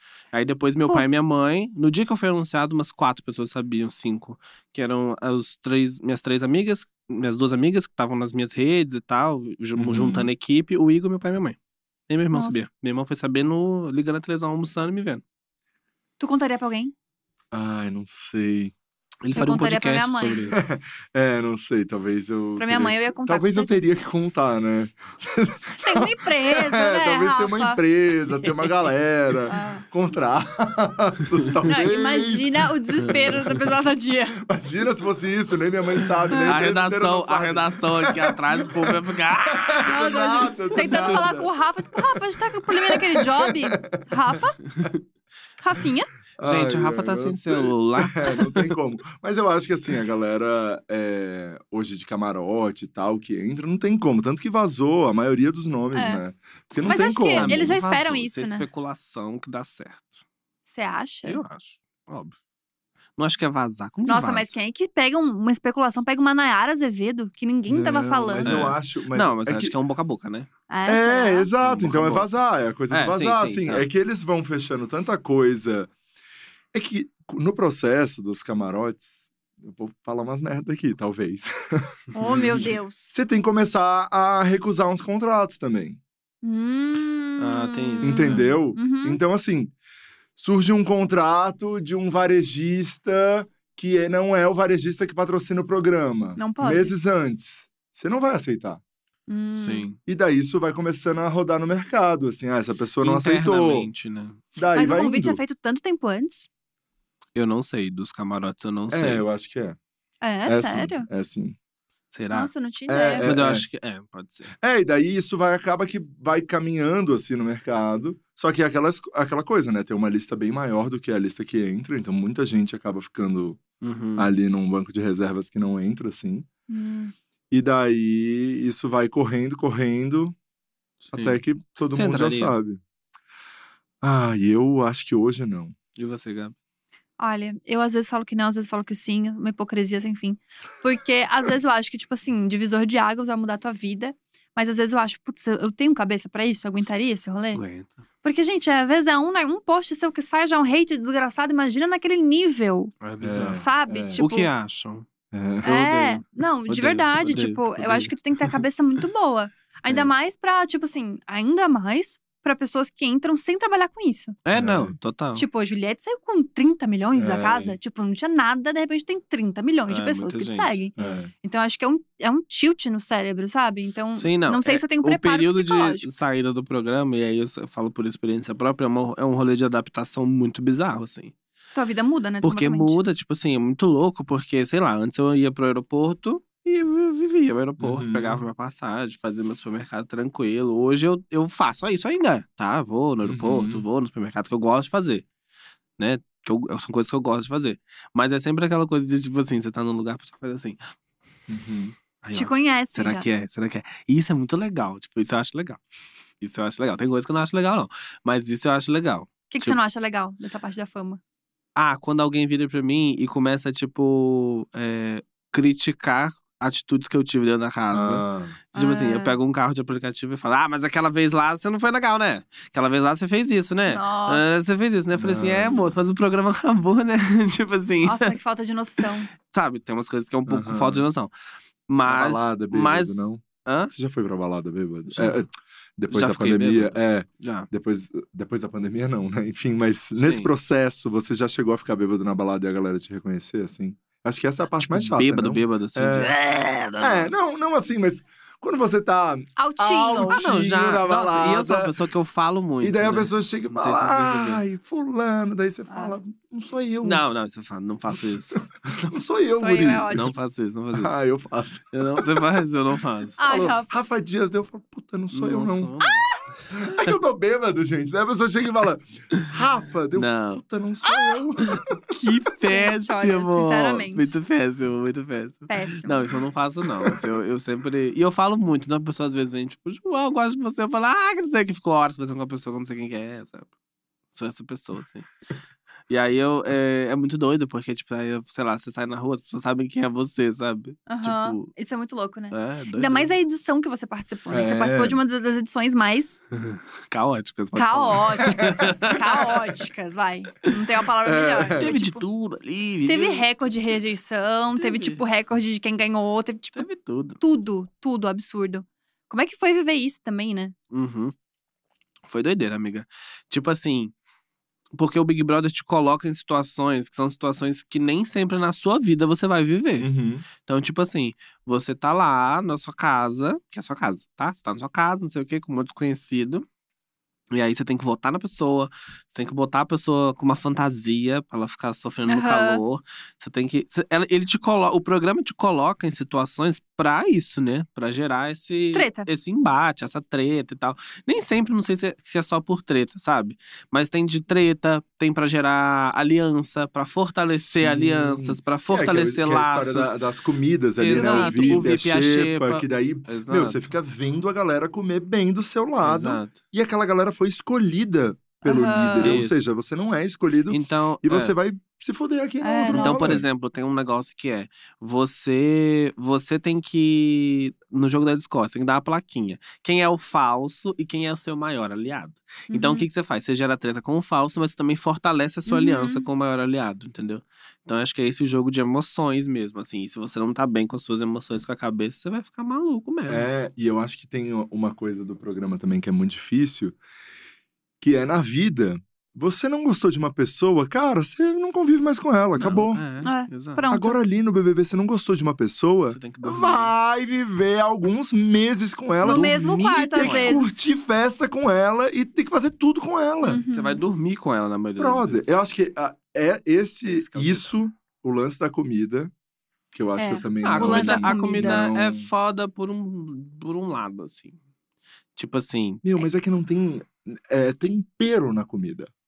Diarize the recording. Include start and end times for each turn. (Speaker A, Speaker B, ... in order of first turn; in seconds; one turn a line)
Speaker A: 0.3-11.6
Speaker B: 9.8-10.3
Speaker A: 12.1-15.2
Speaker C: 12.3-12.6
Speaker C: 16.2-16.9
Speaker B: 17.5-18.7
Speaker A: 19.2-20.6
Speaker C: 19.3-20.5
Speaker B: 20.5-33.7
Speaker C: 22.6-23.7
Speaker C: 25.8-27.8
Speaker C: 29.5-29.8
Speaker C: 31.7-34.4
Speaker A: 33.0-33.3
Speaker B: 34.4-44.9
Speaker A: 36.4-40.2
Speaker C: 39.8-44.6
Speaker A: 40.7-41.2
Speaker C: 45.6-46.1
Speaker B: 46.4-57.8
Speaker A: 46.4-48.8
Speaker C: 55.9-56.2
Speaker C: 56.9-58.6
Speaker A: 57.4-60.1
Speaker C: 60.7-61.4
Speaker A: 61.2-62.4
Speaker A: 63.2-64.5
Speaker C: 64.1-68.6
Speaker B: 67.7-69.7
Speaker A: 68.4-70.5
Speaker C: 70.7-71.5
Speaker B: 70.8-75.9
Speaker A: 71.6-72.3
Speaker A: 72.9-73.9
Speaker B: 76.7-86.0
Speaker C: 82.1-83.1
Speaker C: 86.4-89.2
Speaker A: 87.4-88.5
Speaker B: 88.0-89.7
Speaker B: 90.3-98.8
Speaker C: 96.4-96.9
Speaker C: 99.3-99.9
Speaker A: 99.5-100.0
Speaker B: 100.0-103.9
Speaker A: 103.0-104.4
Speaker B: 104.5-105.4
Speaker C: 104.7-106.5
Speaker A: 107.3-109.2
Speaker B: 108.9-109.8
Speaker C: 110.2-111.1
Speaker B: 110.5-111.5
Speaker A: 112.1-112.5
Speaker C: 112.3-113.3
Speaker B: 112.9-113.6
Speaker A: 113.2-114.5
Speaker B: 114.6-123.6
Speaker A: 123.8-124.3
Speaker B: 124.2-126.5
Speaker C: 126.7-127.1
Speaker B: 127.5-130.3
Speaker A: 131.0-132.5
Speaker B: 131.1-132.8
Speaker B: 134.0-135.7
Speaker A: 136.0-136.5
Speaker C: 137.2-147.6
Speaker A: 147.5-147.9
Speaker C: 148.2-154.5
Speaker A: 153.0-153.6
Speaker B: 153.2-154.2
Speaker A: 154.2-155.1
Speaker B: 155.3-155.7
Speaker A: 155.6-158.6
Speaker C: 155.6-164.3
Speaker A: 164.4-165.4
Speaker B: 164.5-164.9
Speaker C: 165.3-176.1
Speaker B: 167.2-167.8
Speaker A: 169.9-171.2
Speaker B: 171.0-171.3
Speaker A: 174.1-181.3
Speaker C: 181.7-183.0
Speaker A: 182.4-195.2
Speaker B: 187.8-188.4
Speaker B: 193.2-193.8
Speaker A: 196.0-200.8
Speaker B: 201.5-201.9
Speaker A: 202.2-205.8
Speaker C: 202.3-203.3
Speaker A: 206.4-209.8
Speaker C: 209.5-211.2
Speaker A: 211.8-228.3
Speaker B: 217.9-218.6
Speaker C: 218.7-219.4
Speaker C: 223.9-224.4
Speaker B: 225.1-225.9
Speaker C: 228.0-229.3
Speaker A: 229.4-231.3
Speaker B: 230.5-231.1
Speaker A: 231.9-233.9
Speaker B: 232.0-246.3
Speaker A: 235.1-235.4
Speaker A: 236.1-237.7
Speaker A: 240.2-240.5
Speaker A: 244.8-247.3
Speaker B: 247.0-251.9
Speaker C: 249.6-250.5
Speaker A: 250.3-254.6
Speaker B: 252.8-257.2
Speaker C: 255.9-256.1
Speaker A: 257.0-259.1
Speaker B: 259.1-260.3
Speaker C: 259.5-260.3
Speaker A: 260.1-261.1
Speaker B: 260.9-262.5
Speaker A: 261.9-263.4
Speaker C: 263.4-263.9
Speaker B: 263.5-265.9
Speaker A: 265.3-266.4
Speaker B: 266.7-271.9
Speaker A: 270.1-270.6
Speaker C: 271.0-271.4
Speaker A: 271.6-283.7
Speaker C: 272.6-274.3
Speaker C: 275.7-276.3
Speaker B: 277.0-277.2
Speaker A: 284.3-285.3
Speaker A: 286.1-291.7
Speaker C: 291.1-296.4
Speaker A: 292.5-293.3
Speaker B: 294.5-295.2
Speaker A: 296.5-299.5
Speaker C: 297.7-302.2
Speaker B: 298.4-299.1
Speaker B: 301.2-301.9
Speaker A: 301.8-304.0
Speaker C: 303.1-306.9
Speaker A: 304.7-305.2
Speaker A: 306.7-307.4
Speaker C: 307.4-310.7
Speaker A: 310.9-311.3
Speaker A: 312.2-314.1
Speaker A: 314.9-320.1
Speaker B: 320.0-320.4
Speaker A: 320.6-326.6
Speaker A: 327.5-350.1
Speaker C: 332.3-332.8
Speaker C: 338.9-339.3
Speaker B: 347.5-363.4
Speaker A: 351.0-353.8
Speaker C: 351.1-351.9
Speaker A: 356.0-356.6
Speaker C: 358.6-359.4
Speaker A: 359.1-359.6
Speaker A: 360.7-361.5
Speaker C: 362.6-363.4
Speaker A: 362.9-383.5
Speaker C: 372.7-373.1
Speaker C: 375.7-376.2
Speaker B: 383.3-387.0
Speaker B: 388.0-393.0
Speaker A: 392.6-393.9
Speaker C: 393.2-394.2
Speaker B: 393.9-403.6
Speaker A: 396.1-396.9
Speaker C: 399.2-400.8
Speaker A: 399.2-400.7
Speaker C: 403.4-404.0
Speaker A: 403.7-405.6
Speaker B: 405.0-409.3
Speaker A: 407.1-407.7
Speaker B: 409.9-412.3
Speaker C: 410.2-411.8
Speaker A: 410.6-414.6
Speaker A: 415.4-416.0
Speaker B: 416.0-419.1